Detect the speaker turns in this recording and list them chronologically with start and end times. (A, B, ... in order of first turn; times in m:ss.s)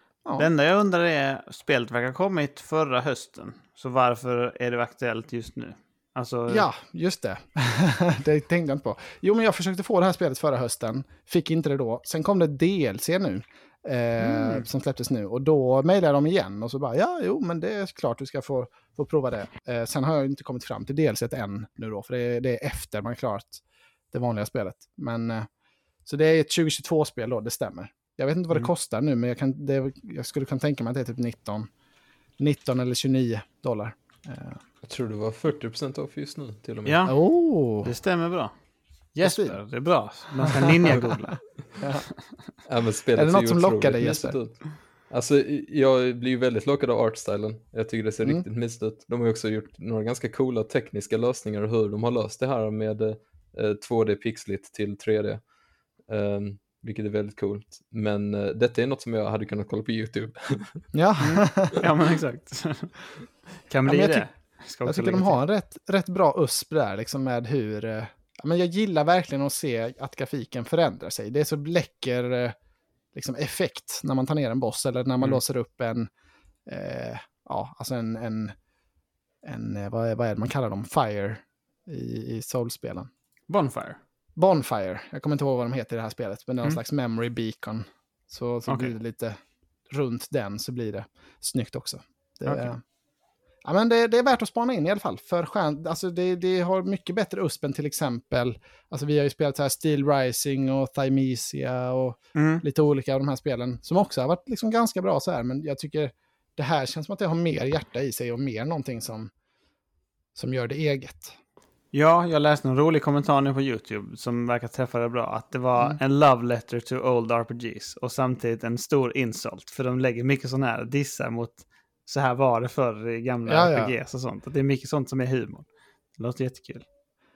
0:00.4-0:06.7 A
0:06.5-0:25.5 B
0:14.2-0:14.7 A
0:26.1-0:31.7 B
0:32.4-0:34.6 B
0:34.8-0:37.1 C
0:36.8-0:37.2 A
0:37.1-0:37.9 B
0:37.8-0:38.5 A
0:39.1-0:41.4 A
0:39.2-0:39.6 B
0:40.6-0:41.2 B
0:41.8-0:42.1 B
0:42.7-0:55.4 C
0:43.2-0:44.4 B
0:56.1-1:00.9 C
1:00.9-1:01.8 B
1:01.2-1:03.1 A
1:03.7-1:05.4 A
1:03.8-1:04.3 B
1:04.8-1:12.6 B
1:13.1-1:16.1 B
1:16.7-1:18.6 B
1:19.4-1:23.1 B
1:23.5-1:24.0 A
1:24.4-1:29.4 B
1:28.7-1:29.0 A
1:29.9-1:32.8 B
1:33.6-1:49.3 B
1:42.4-1:42.6 A
1:50.4-1:51.4 B
1:51.9-2:05.7 A
2:03.5-2:03.9 B
2:06.2-2:06.8 A